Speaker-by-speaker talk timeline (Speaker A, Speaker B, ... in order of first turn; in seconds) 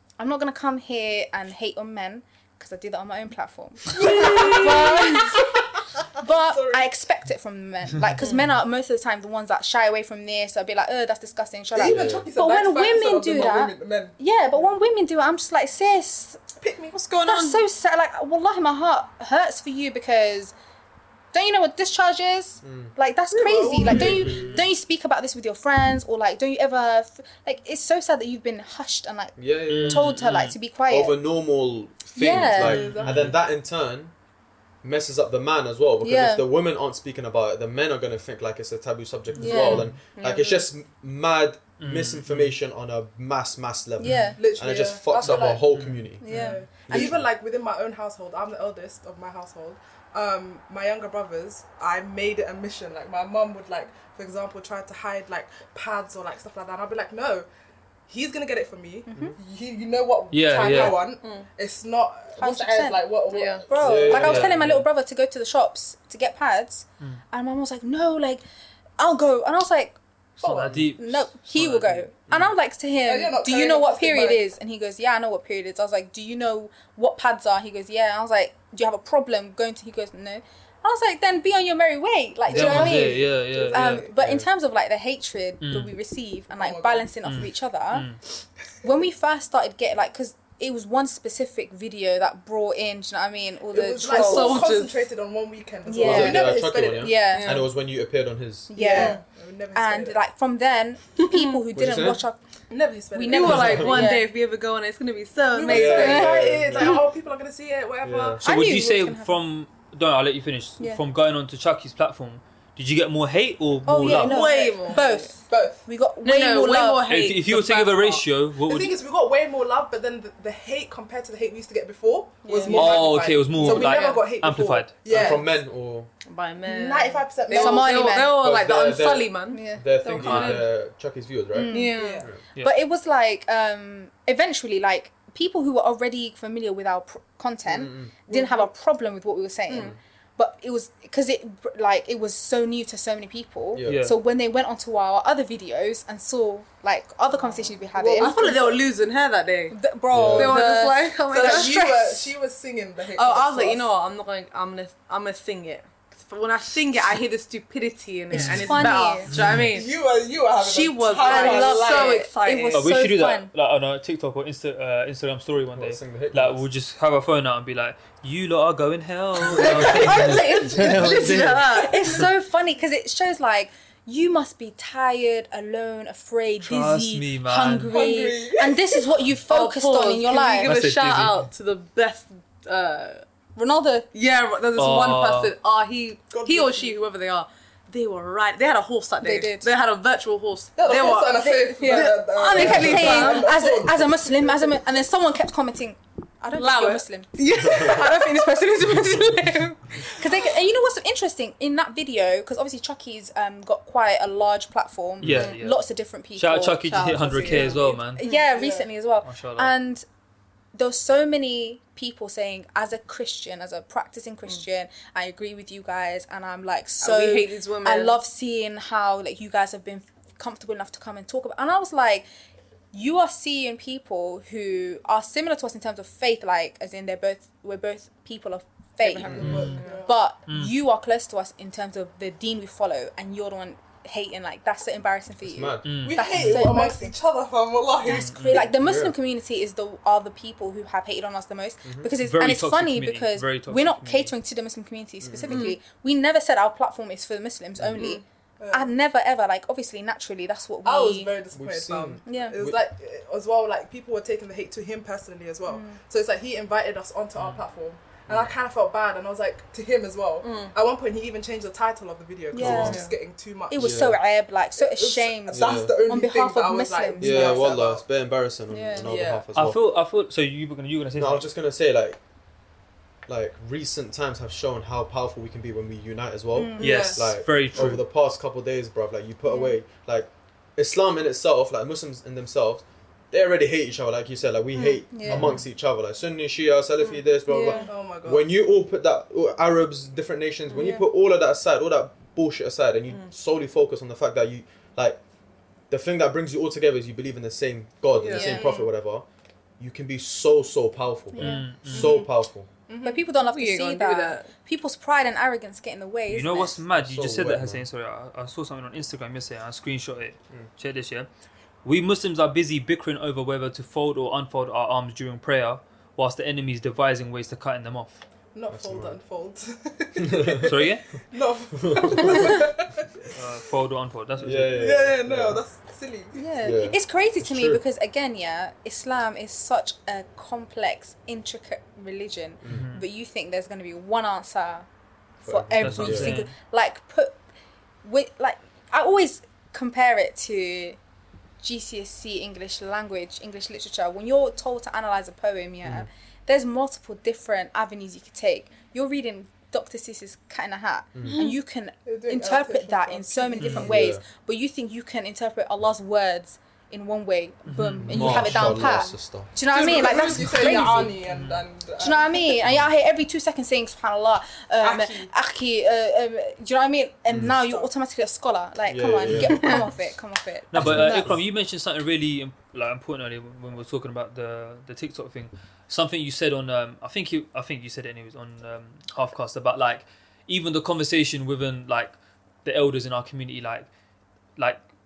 Speaker A: 0.2-16.4, 17.2-20.5, 21.3-31.2, 32.1-33.0, 36.0-36.4, 39.4-39.9, 44.0-44.4, 46.2-47.2, 59.1-59.4, 62.4-63.0, 63.7-68.4, 69.0-70.0, 70.9-88.1, 88.8-94.7, 95.9-97.7, 98.7-99.2, 99.7-102.4, 103.1-104.3, 105.6-106.9, 108.4-109.4, 113.9-117.1, 122.5-123.0, 127.5-128.4, 129.5-130.5, 131.5-148.6, 149.7-152.3, 158.3-159.3, 161.2-163.5, 171.7-180.7, 183.6-184.1, 189.2-189.7, 191.4-210.1, 210.7-222.3, 222.9-237.1, 238.0-251.4, 252.2-252.6, 255.7-256.0, 262.5-263.1, 263.7-267.7, 268.7-269.2, 276.5-277.2, 279.5-279.7, 285.1-285.5, 287.5-287.9, 290.8-291.0, 298.3-298.9, 301.3-301.7, 303.0-306.8, 326.3-334.9, 335.4-337.4, 338.0-341.0, 341.6-361.2, 362.0-371.4
Speaker B: 3.9-5.5, 6.2-6.9, 11.7-14.7, 16.6-17.1, 23.3-24.7, 32.6-33.3, 39.4-39.9, 44.4-45.7, 46.2-57.5, 58.1-64.5, 70.4-70.8, 73.0-74.4, 82.5-84.2, 86.5-87.1, 93.7-97.1, 98.8-100.2, 102.7-104.1, 105.7-108.4, 114.2-115.8, 118.7-125.6, 126.7-127.9, 132.0-132.3, 138.3-138.7, 147.9-148.7, 151.3-153.9, 159.7-162.3, 169.6-171.0, 177.9-179.0, 186.3-187.0, 190.8-194.7, 207.0-207.8, 208.5-208.9, 229.3-230.1, 236.0-238.6, 248.6-248.9, 250.8-264.0, 264.8-268.0, 276.8-277.3, 287.8-288.5, 298.2-298.5, 318.5-320.8, 321.3-323.4, 324.7-326.4, 352.1-354.1, 359.7-362.6, 364.8-365.3, 367.6-367.9
Speaker C: 4.0-4.6, 29.7-30.6, 32.4-33.4, 41.8-42.6, 45.7-46.1, 60.3-61.0, 64.1-64.7, 70.4-72.3, 82.5-84.1, 85.6-85.9, 87.2-88.2, 108.4-114.3, 117.1-119.0, 122.7-124.9, 130.1-130.7, 143.9-144.2, 158.3-159.7, 162.7-172.2, 176.6-178.0, 180.6-181.5, 184.8-185.5, 205.2-208.2, 209.2-209.7, 229.4-229.8, 230.5-230.7, 235.8-236.7, 238.1-238.7, 242.2-244.3, 257.4-257.6, 269.6-271.5, 276.8-278.0, 285.2-285.6, 301.4-302.1, 306.3-311.3, 311.8-318.2, 320.6-321.0, 323.3-324.8, 332.7-333.0, 335.8-336.5, 353.6-353.9, 357.7-359.0, 361.2-361.7, 369.3-369.7, 370.7-383.9
Speaker D: 11.8-12.3, 22.6-22.9, 23.9-24.6, 29.4-30.2, 30.9-34.1, 34.8-46.3, 46.9-47.3, 63.8-64.9, 84.2-84.5, 96.0-98.8, 101.7-102.2, 103.5-104.0, 105.7-107.0, 108.0-108.4, 125.1-126.1, 128.3-132.4, 137.7-138.1, 143.7-144.1, 150.1-150.6, 165.7-166.6, 197.6-198.0, 205.2-205.5, 235.5-235.8, 238.5-239.1, 245.2-245.6, 247.8-248.1, 251.5-252.8, 258.3-258.5, 262.6-263.0, 263.8-264.2, 265.5-266.0, 267.2-269.8, 271.2-272.2, 273.3-295.2, 295.9-299.2, 299.8-302.7, 306.9-307.9, 318.7-319.2, 320.2-320.7, 321.7-322.6, 324.4-325.6, 326.6-327.8, 335.5-336.4, 345.8-346.1, 353.7-354.2, 358.1-359.5, 367.3-367.5, 368.9-369.9, 370.8-371.4
Speaker E: 17.0-17.6, 40.1-40.7, 60.6-61.5, 63.3-63.6, 94.0-95.0, 97.2-97.7, 98.8-99.2, 101.2-101.6, 103.3-106.3, 114.1-115.3, 116.2-118.2, 122.5-124.2, 126.2-130.6, 131.7-132.2, 139.7-139.9, 148.2-151.9, 153.1-159.9, 160.6-162.9, 169.6-172.2, 179.5-183.2, 184.1-193.5, 196.5-198.6, 206.9-208.5, 217.0-218.2, 229.0-230.1, 245.4-245.8, 248.0-248.2, 260.4-260.8, 262.8-263.1, 269.0-269.4, 298.2-298.9, 302.9-304.5, 351.2-351.6